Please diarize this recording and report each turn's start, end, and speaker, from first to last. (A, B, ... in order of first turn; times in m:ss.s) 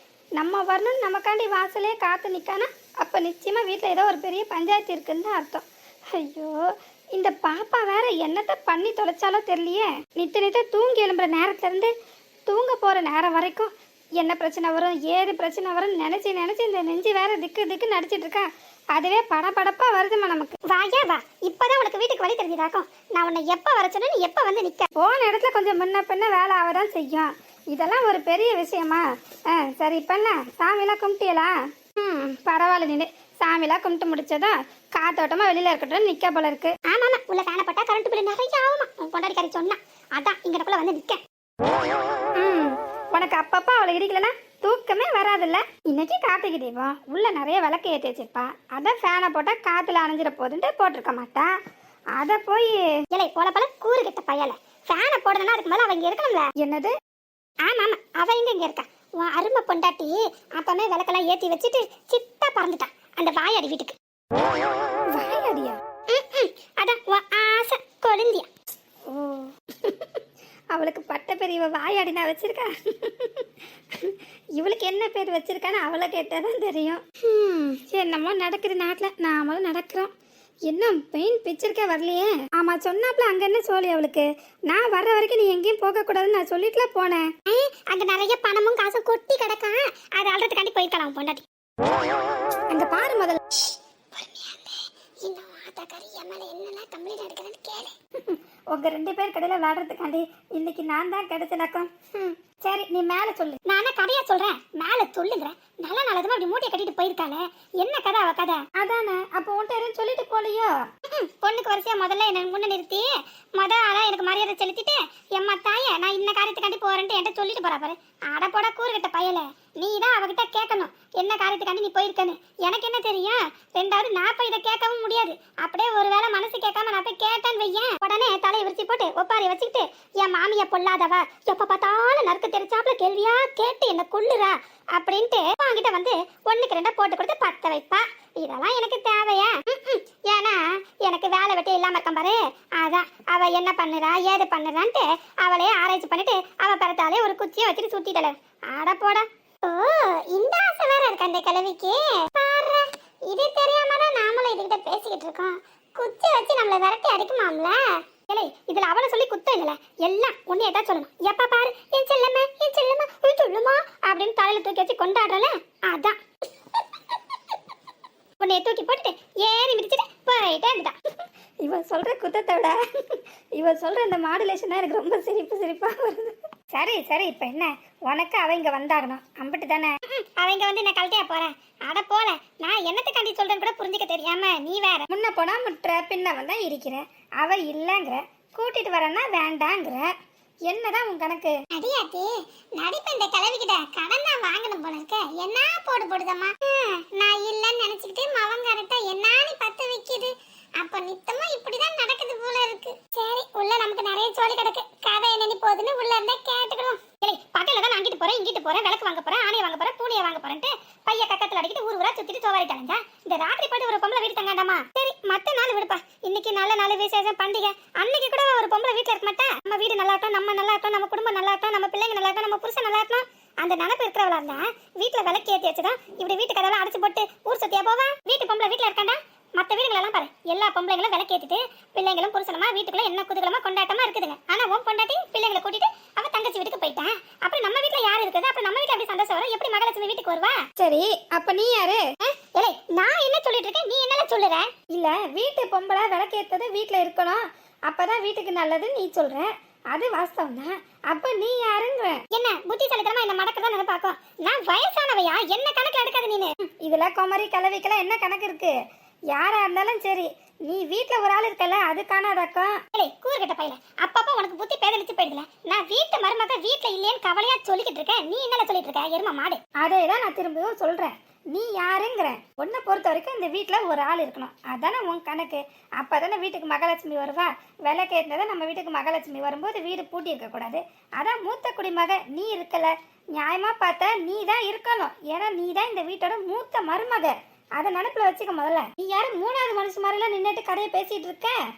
0:00.4-0:06.6 A
0:07.2-0:11.9 A
0:12.5-0:20.6 A
0:20.7-0:24.9 B
0:25.0-0:36.8 A
0:36.8-0:41.2 B
0:42.4-0:51.5 A
0:52.2-0:52.8 A
0:53.1-0:56.5 B
0:56.6-0:57.0 A
0:57.6-1:04.0 B
1:05.2-1:05.8 A
1:06.1-1:08.5 B
1:09.1-1:10.2 A
1:10.7-1:20.1 A
1:20.7-1:27.3 A
1:27.5-1:31.4 B
1:32.7-1:33.4 A
1:34.1-1:37.9 B
1:38.2-1:43.6 A
1:43.7-1:48.6 B
1:48.8-1:50.7 A
1:51.1-2:46.2 B
2:48.4-2:50.9 B
2:51.6-3:00.0 A
3:00.1-3:05.1 B
3:05.1-3:10.1 A
3:10.7-3:11.6 A
3:11.7-4:00.6 B
4:00.8-4:02.1 A
4:02.3-4:04.7 B
4:04.9-4:12.2 A
4:12.3-4:16.5 B
4:16.8-4:18.7 A
4:19.3-4:22.8 A
4:23.0-4:29.6 B
4:29.8-4:51.6 A